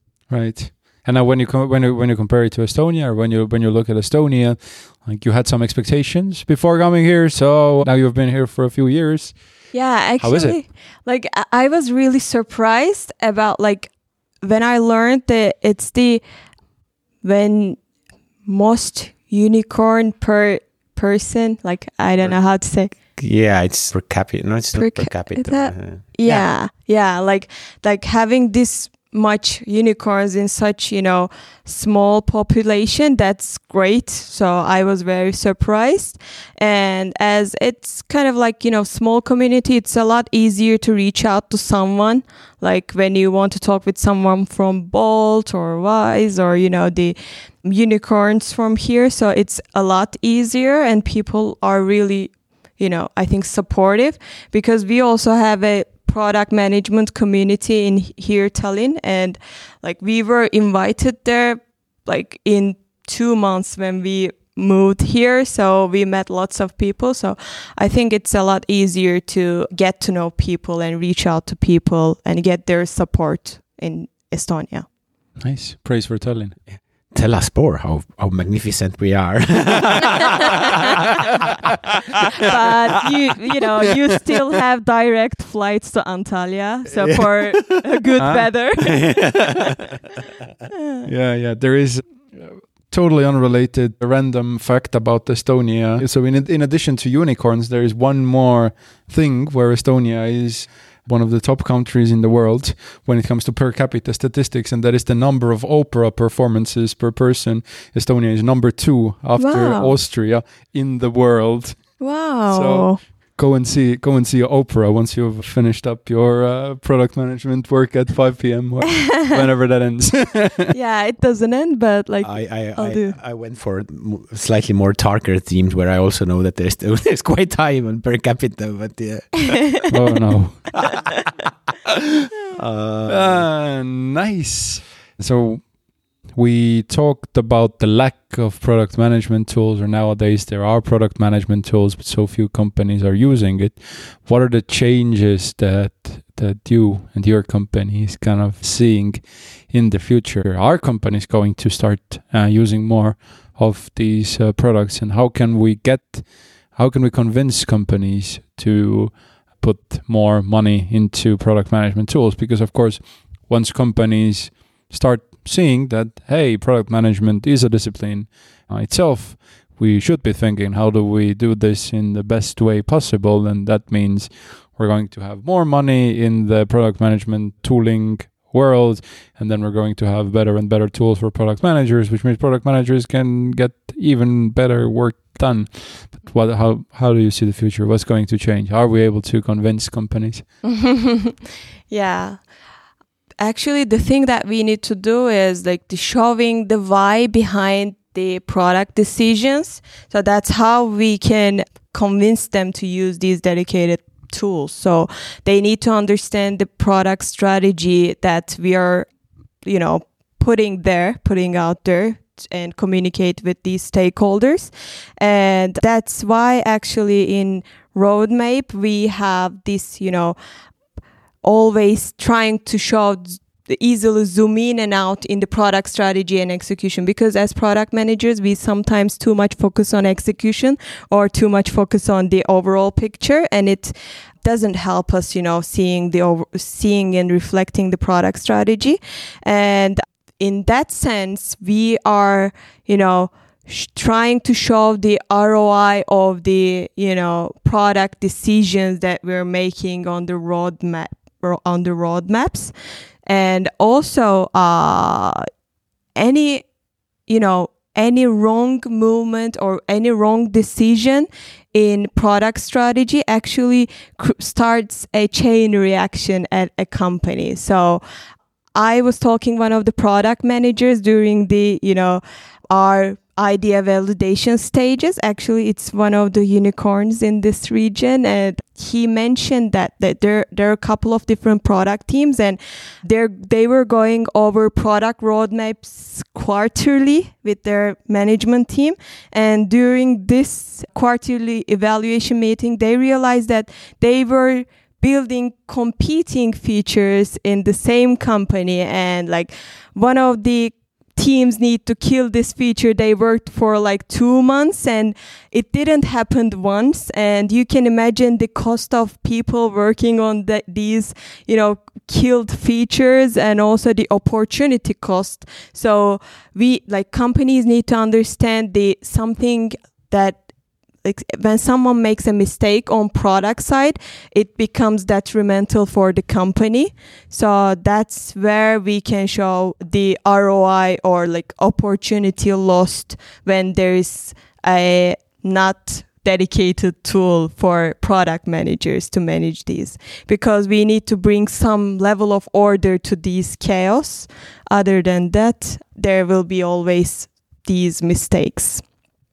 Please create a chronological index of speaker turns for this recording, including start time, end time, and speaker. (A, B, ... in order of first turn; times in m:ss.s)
0:00.3-0:10.6 A
0:09.7-0:16.2 B
0:17.2-0:17.8 B
0:18.5-0:22.9 B
0:23.2-0:26.5 C
0:24.8-1:14.9 B
1:15.4-1:16.6 A
1:16.8-1:20.5 C
1:22.4-1:29.6 B
1:28.2-1:28.5 A
1:30.7-1:31.1 B
1:31.0-2:00.7 A
1:49.4-1:49.9 B
1:52.0-1:53.0 B
2:00.7-2:03.2 B
2:02.2-2:09.9 C
2:09.9-2:10.7 A
2:10.8-2:11.5 C
2:12.5-2:13.5 C
2:13.1-3:10.5 A
3:10.6-3:11.4 B
3:11.9-3:12.4 B
3:13.4-3:29.1 B
3:29.6-3:40.4 B
3:41.4-4:12.7 B
4:13.3-4:15.4 B
4:16.2-4:16.7 B
4:17.3-4:28.0 B
4:28.8-5:20.4 B
5:21.0-5:48.8 B